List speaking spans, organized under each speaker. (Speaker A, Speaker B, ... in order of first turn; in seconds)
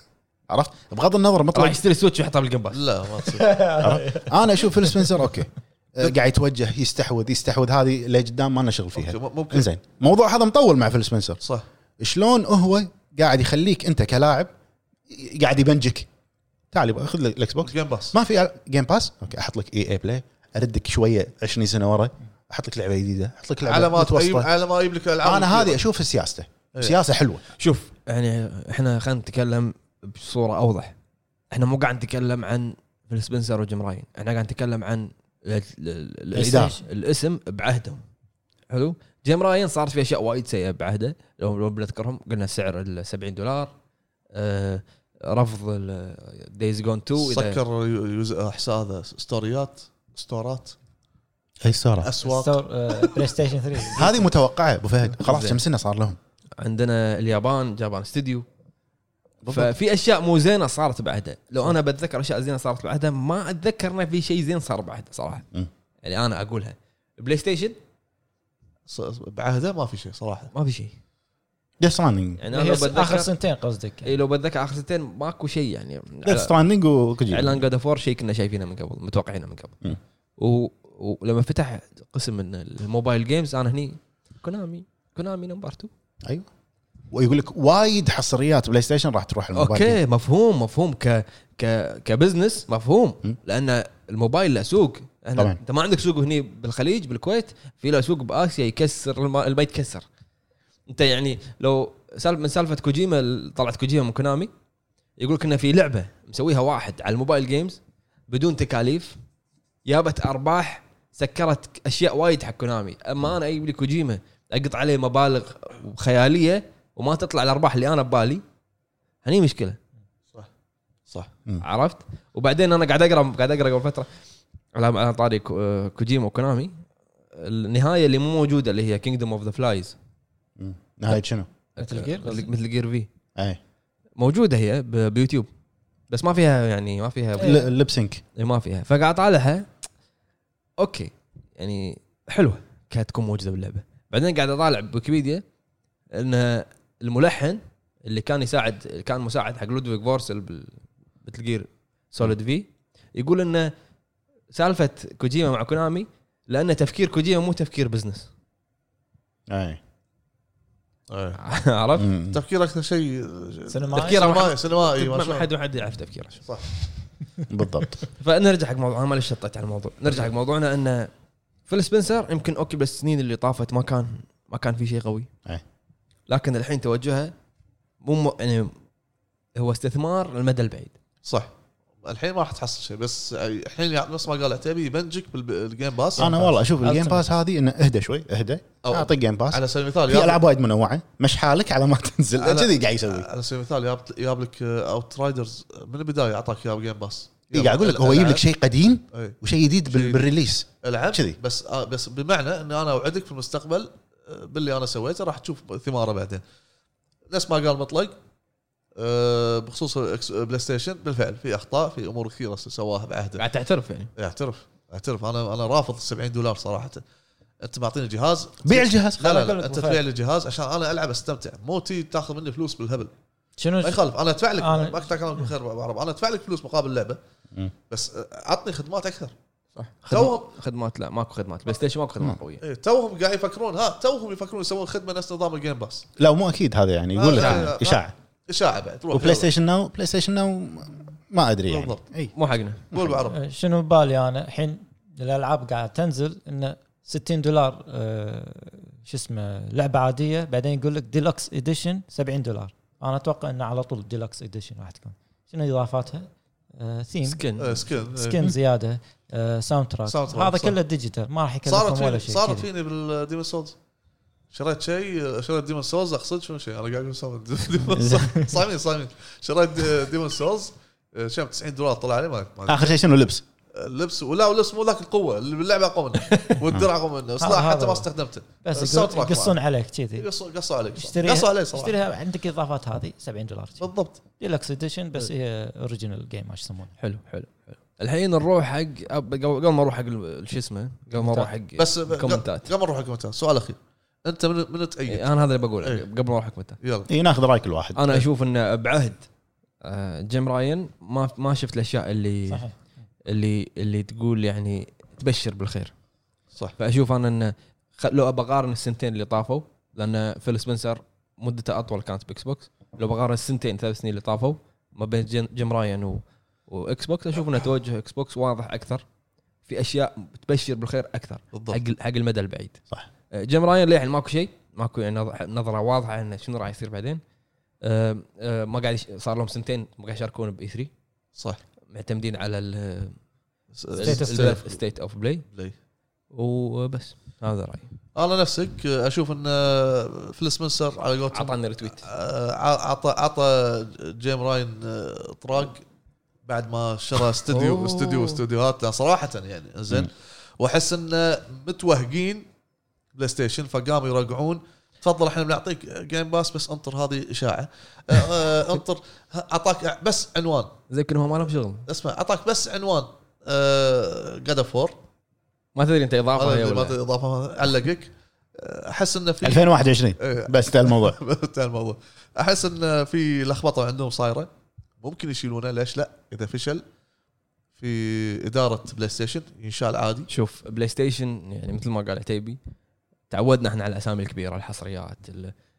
Speaker A: 0.5-1.8, 3.8-11.4, 12.0-14.5, 15.1-16.1, 16.7-24.5, 25.2-27.4, 36.3-36.7, 51.6-52.1, 53.9-56.2, 59.4-59.7, 71.8-72.4, 76.2-77.6, 87.1-90.0, 130.6-131.5, 137.4-138.2, 159.5-159.8, 162.0-162.4, 167.5-168.0, 186.2-193.3, 197.5-201.4, 218.6-219.4, 236.2-238.1, 239.1-242.3, 267.9-268.3, 272.7-273.4, 297.1-298.1, 369.4-371.2
Speaker B: 1.5-2.8, 27.6-30.9, 31.5-38.0, 38.7-43.7, 44.3-47.6, 55.2-55.6, 56.6-58.4, 59.5-65.4, 66.0-67.8, 70.5-71.0, 72.4-73.3, 74.0-76.5, 77.3-79.8, 80.4-85.9, 89.5-100.0, 100.9-104.5, 105.2-109.2, 109.8-118.4, 119.2-119.8, 121.6-124.1, 124.7-126.7, 127.3-129.9, 131.8-133.1, 134.2-135.5, 136.1-137.6, 138.3-139.7, 140.8-145.4, 146.1-150.7, 151.2-153.7, 154.5-158.3, 161.4-162.1, 163.9-166.4, 168.1-171.1, 171.7-175.3, 176.3-177.3, 178.0-178.7, 179.6-180.9, 213.3-214.1, 229.8-232.6, 237.3-237.7, 242.3-242.8, 257.2-257.8, 287.0-292.7, 295.1-296.8, 297.9-299.2, 299.8-302.6, 303.3-305.9, 306.8-319.0, 319.7-322.8, 323.3-327.2, 327.8-330.9, 331.9-333.1, 333.9-335.4, 336.3-337.9, 341.3-342.1, 347.5-348.4, 360.9-361.8, 365.7-367.0, 380.3-382.6, 383.3-385.5
Speaker C: 2.7-3.6, 8.9-9.7, 17.6-18.1, 23.6-25.8, 47.2-50.7, 52.0-53.2, 68.9-70.5, 161.1-161.4, 162.3-165.5, 181.2-181.5, 182.0-186.4, 188.8-190.4, 192.4-198.4, 199.9-200.2, 200.8-206.4, 207.3-208.1, 208.9-213.4, 214.2-217.0, 217.6-223.1, 223.8-227.2, 227.9-229.3, 230.1-230.4, 232.6-236.1, 237.2-239.5, 241.7-242.0, 242.9-243.4, 257.6-258.4, 260.1-260.8, 261.7-263.7, 264.5-272.9, 273.7-279.6, 280.2-281.9, 283.8-284.2, 291.8-295.3, 296.8-297.1, 321.5-321.8, 333.8-334.8, 338.1-345.8, 346.4-352.5, 353.1-360.7, 361.9-365.0, 366.4-374.5, 375.0-376.8, 377.8-380.3
Speaker D: 3.3-5.0, 36.4-36.8, 52.2-54.3, 72.5-74.1, 131.8-132.5, 137.4-137.7, 163.7-164.2, 186.2-187.2, 219.2-220.0, 223.6-224.0, 224.6-225.1, 243.3-257.4, 258.1-262.7, 277.4-278.1, 278.6-280.3, 281.0-286.9, 291.1-291.5, 302.5-302.7, 334.0-334.6